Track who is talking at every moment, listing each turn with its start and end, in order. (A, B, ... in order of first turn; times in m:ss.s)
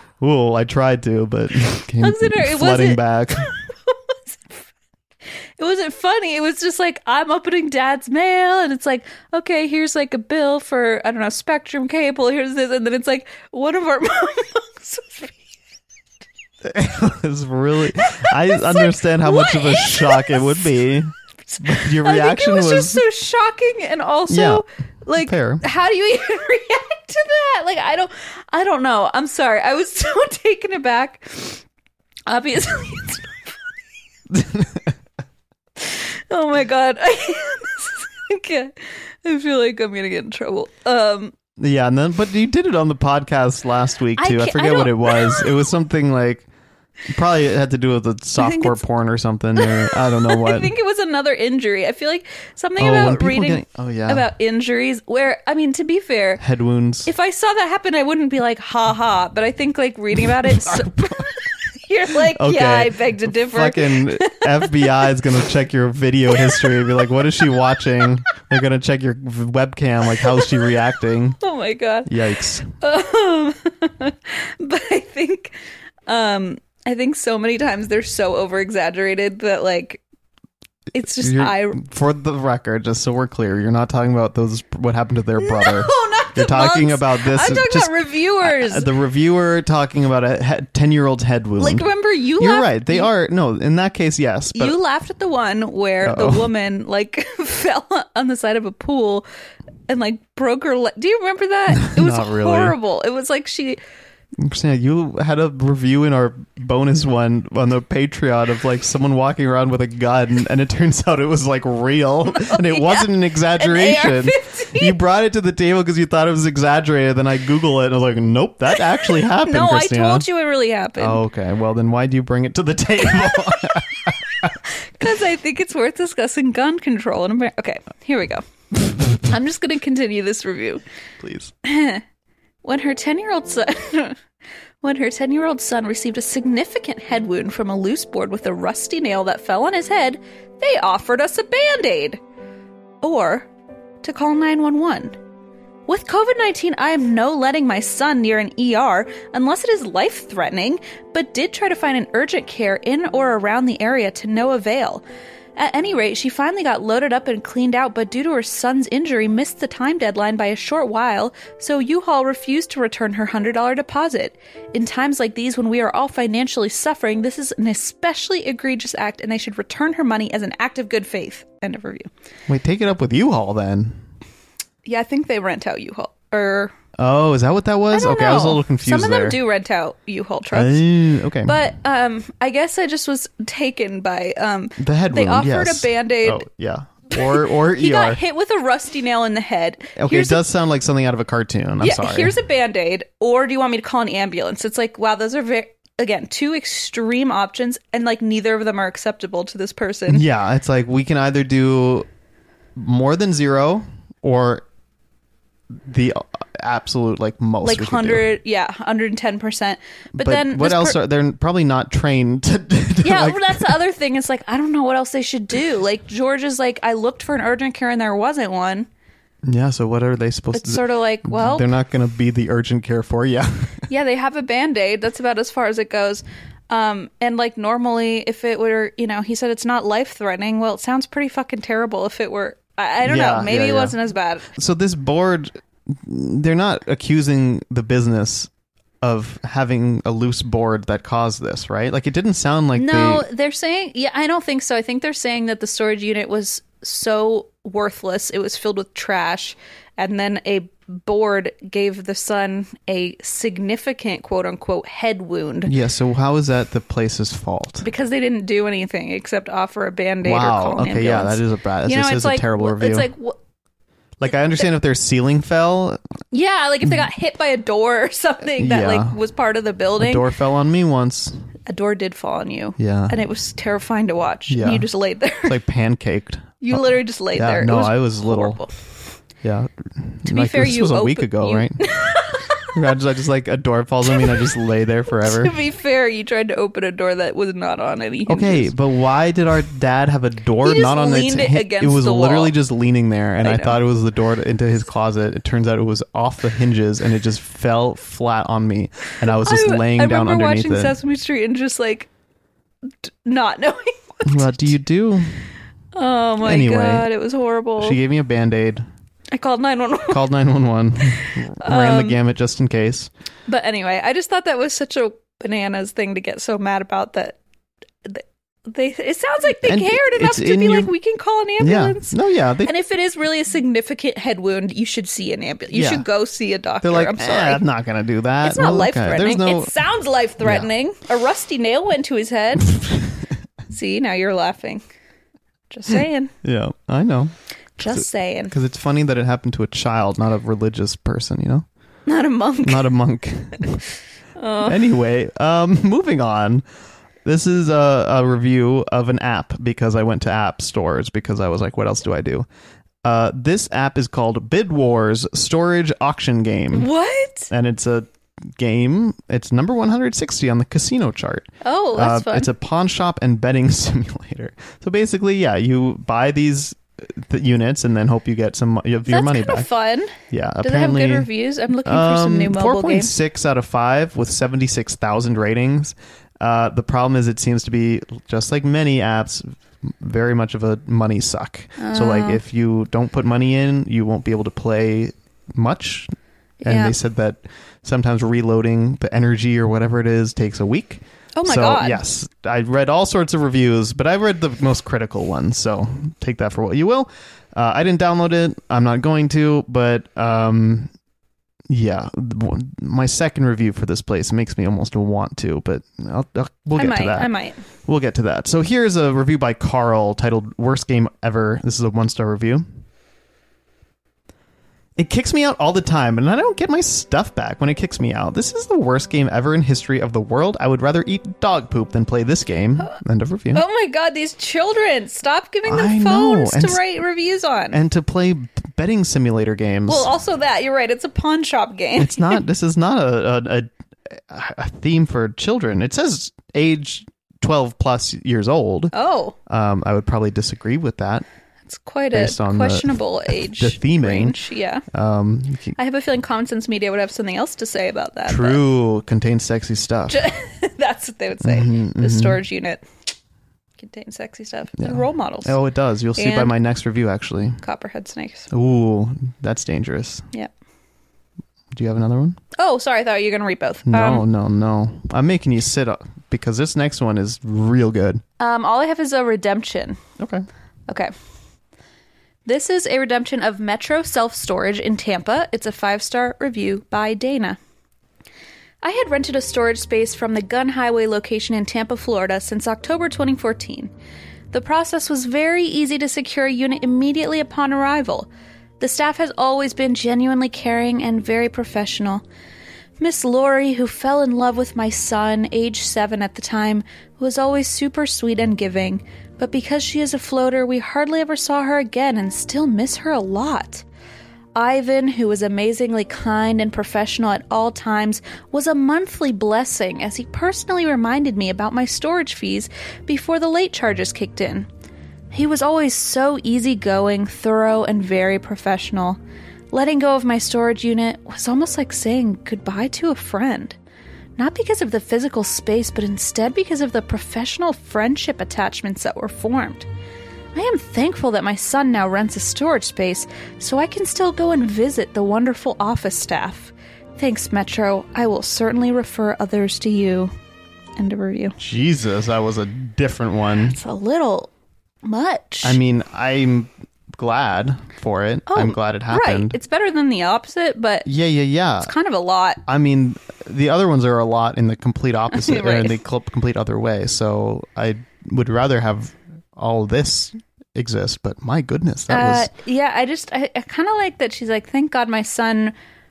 0:00.2-0:03.5 A
0:02.0-0:04.6 B
0:05.6-0:15.4 B
0:16.6-0:23.0 A
0:18.0-0:20.8 B
0:21.5-0:31.6 B
0:24.3-0:24.6 A
0:25.2-0:25.6 A
0:32.3-0:33.8 B
0:34.3-0:34.9 A
0:35.8-0:41.3 B
0:41.6-0:46.5 A
0:44.2-0:45.5 B
0:47.1-0:50.7 A
0:48.4-0:48.8 B
0:49.6-0:56.4 B
0:52.8-0:54.3 A
0:56.4-0:57.1 A
0:57.0-1:05.0 B
1:00.5-1:01.3 A
1:02.3-1:11.4 A
1:06.4-1:06.8 B
1:11.4-1:12.1 B
1:12.1-1:12.7 A
1:12.7-1:15.6 B
1:16.1-1:20.0 B
1:20.9-1:21.8 B
1:21.0-1:31.9 A
1:25.4-1:28.9 B
1:31.6-1:33.1 B
1:32.4-1:34.8 A
1:34.5-1:39.3 B
1:36.0-1:36.5 A
1:39.9-1:43.8 B
1:41.8-1:42.8 A
1:44.4-2:00.3 A
1:52.3-1:55.0 B
1:59.1-2:01.2 B
2:01.0-2:04.6 A
2:05.0-2:08.4 B
2:09.1-2:10.8 B
2:11.2-2:11.5 A
2:11.6-2:12.0 B
2:12.6-2:14.2 B
2:14.8-2:22.2 B
2:23.0-2:23.5 B
2:24.0-2:25.2 B
2:25.9-2:35.0 B
2:35.6-2:52.1 B
2:52.5-2:54.0 A
2:54.8-2:56.7 B
2:57.0-2:59.4 A
2:57.9-3:00.9 B
3:00.5-3:01.6 A
3:01.4-3:06.4 B
3:04.8-3:08.2 A
3:07.1-3:10.4 B
3:10.0-3:12.3 A
3:11.8-3:20.2 B
3:20.1-3:22.1 A
3:22.8-3:24.6 A
3:25.8-3:28.3 A
3:27.6-3:31.0 B
3:30.2-3:33.8 A
3:33.0-3:38.9 B
3:39.4-3:43.9 A
3:40.5-3:41.7 B
3:43.9-3:54.5 B
3:53.0-3:54.0 A
3:54.5-3:58.5 A
3:59.0-4:03.3 A
4:02.8-4:15.7 B
4:15.7-4:17.8 A
4:17.8-4:23.4 B
4:20.2-4:23.1 A
4:24.2-4:26.0 A
4:26.3-4:30.2 B
4:28.6-4:29.2 A
4:30.0-4:31.4 A
4:31.7-4:35.6 B
4:32.8-4:33.2 A
4:34.5-4:34.9 A
4:35.4-4:38.6 A
4:36.6-4:38.7 B
4:39.4-4:41.9 A
4:40.3-4:42.8 B
4:42.7-4:45.6 A
4:44.1-4:44.5 B
4:45.1-4:48.7 B
4:48.3-5:01.0 A
4:50.6-4:52.6 B
4:53.4-4:53.8 B
4:59.4-5:02.1 B
5:03.0-5:04.7 B
5:04.2-5:05.3 A
5:06.0-5:08.0 B
5:06.4-5:07.1 A
5:07.8-5:08.9 A
5:09.3-5:10.2 B
5:10.1-5:13.1 A
5:11.2-5:12.2 B
5:13.5-5:17.4 B
5:18.0-5:27.6 B
5:19.6-5:20.9 A
5:21.6-5:22.7 A
5:25.7-5:26.1 A
5:26.8-5:29.7 A
5:28.4-5:32.9 B
5:30.4-5:30.7 A
5:33.7-5:34.8 B
5:35.7-5:36.3 B
5:36.4-5:37.3 A
5:37.8-5:38.5 B
5:37.9-5:41.7 A
5:42.1-5:42.9 B
5:42.6-5:43.8 A
5:44.4-5:44.8 B
5:44.6-5:46.6 A
5:47.2-5:52.5 A
5:53.0-5:56.9 A
5:56.7-5:57.5 B
5:57.5-6:09.7 A
6:01.6-6:02.5 B
6:09.1-6:13.1 B
6:10.2-6:11.3 A
6:11.8-6:26.1 A
6:21.8-6:22.4 B
6:26.6-6:27.0 B
6:26.6-6:40.9 A
6:31.4-6:32.0 B
6:41.7-6:47.3 A
6:46.8-6:47.6 B
6:47.9-6:52.6 A
6:55.0-7:03.6 A
7:03.5-7:07.8 B
7:05.7-7:06.8 A
7:07.7-7:10.1 A
7:09.9-7:12.4 B
7:12.0-7:18.9 A
7:18.9-7:19.4 B
7:19.5-7:21.2 A
7:21.7-7:24.8 B
7:22.1-7:24.4 A
7:24.9-7:25.8 A
7:25.8-7:28.6 B
7:28.3-7:30.2 A
7:30.1-7:32.9 B
7:31.4-7:32.4 A
7:33.8-7:35.6 B
7:34.8-7:37.6 A
7:36.2-7:36.5 B
7:37.6-7:38.5 B
7:38.5-7:40.3 A
7:41.7-7:42.4 A
7:42.6-7:44.2 B
7:43.9-7:48.2 A
7:48.4-7:50.0 B
7:50.2-7:50.5 A
7:52.4-7:57.6 B
7:58.8-8:03.9 B
8:04.5-8:08.3 B
8:08.8-8:12.2 B
8:13.0-8:23.8 B
8:24.6-8:34.7 B
8:35.3-8:39.2 B
8:39.7-8:43.8 B
8:44.4-8:49.9 B
8:50.5-9:00.3 B
9:01.0-9:01.6 B
9:01.6-9:03.8 A
9:03.7-9:04.5 B
9:05.0-9:05.8 B
9:05.6-9:09.6 A
9:08.5-9:11.1 B
9:11.1-9:11.9 A
9:11.8-9:12.6 B
9:12.7-9:22.5 A
9:15.3-9:16.0 B
9:22.1-9:25.7 B